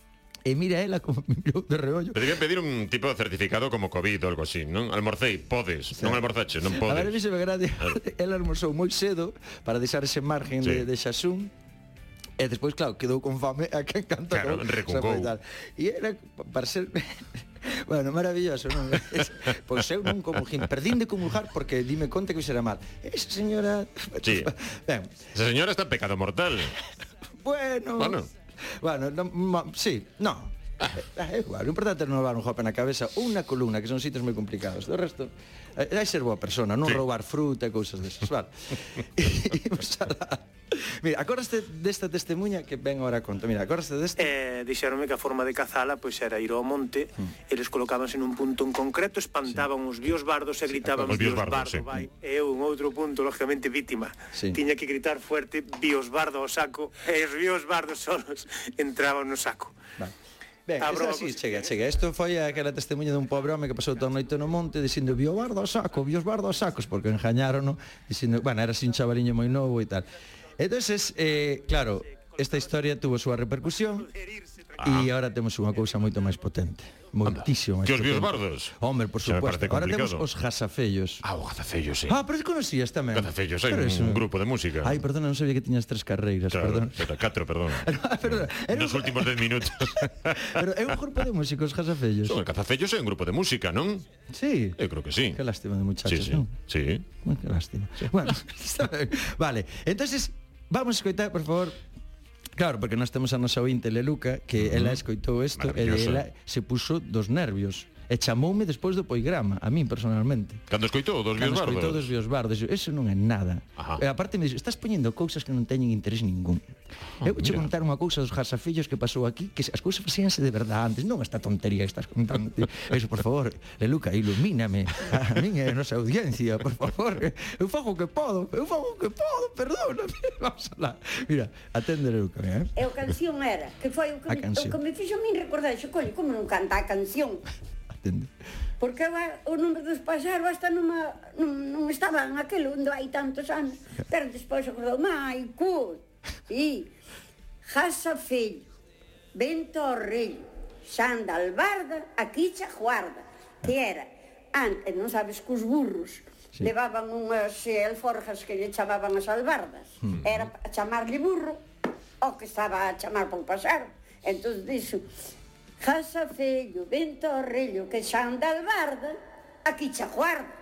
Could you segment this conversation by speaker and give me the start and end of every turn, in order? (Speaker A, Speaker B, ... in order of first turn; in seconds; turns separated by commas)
Speaker A: 0.4-2.3, Speaker B: 2.1-7.2, Speaker A: 5.9-6.2, Speaker A: 6.8-11.5, Speaker A: 12.4-25.2, Speaker B: 14.3-15.3, Speaker B: 24.2-24.5, Speaker B: 25.3-26.8, Speaker A: 27.4-28.2, Speaker B: 28.0-28.3, Speaker A: 28.8-44.3, Speaker C: 44.2-59.7, Speaker A: 50.8-51.3, Speaker B: 51.0-51.9, Speaker A: 54.3-54.6, Speaker A: 60.7-70.1, Speaker C: 60.8-61.6, Speaker A: 70.6-74.1, Speaker C: 74.2-74.5, Speaker B: 74.8-75.1, Speaker A: 74.8-81.2, Speaker B: 77.2-80.3, Speaker B: 81.2-82.2, Speaker A: 82.1-84.3, Speaker B: 83.1-85.0, Speaker A: 84.8-92.4, Speaker B: 86.5-90.7, Speaker B: 92.2-94.0, Speaker A: 94.3-94.8, Speaker B: 94.8-95.4, Speaker A: 95.3-96.5, Speaker B: 96.0-97.0, Speaker A: 97.2-101.8, Speaker A: 102.6-110.6, Speaker B: 104.6-105.0, Speaker B: 105.5-106.2, Speaker B: 110.7-112.1, Speaker A: 111.4-116.6, Speaker B: 117.2-117.7, Speaker A: 117.2-132.8, Speaker D: 132.8-137.4, Speaker A: 134.3-134.8, Speaker A: 138.0-138.3, Speaker D: 138.8-146.9, Speaker D: 147.7-148.7, Speaker D: 149.3-161.6, Speaker D: 162.2-165.1, Speaker D: 165.8-170.5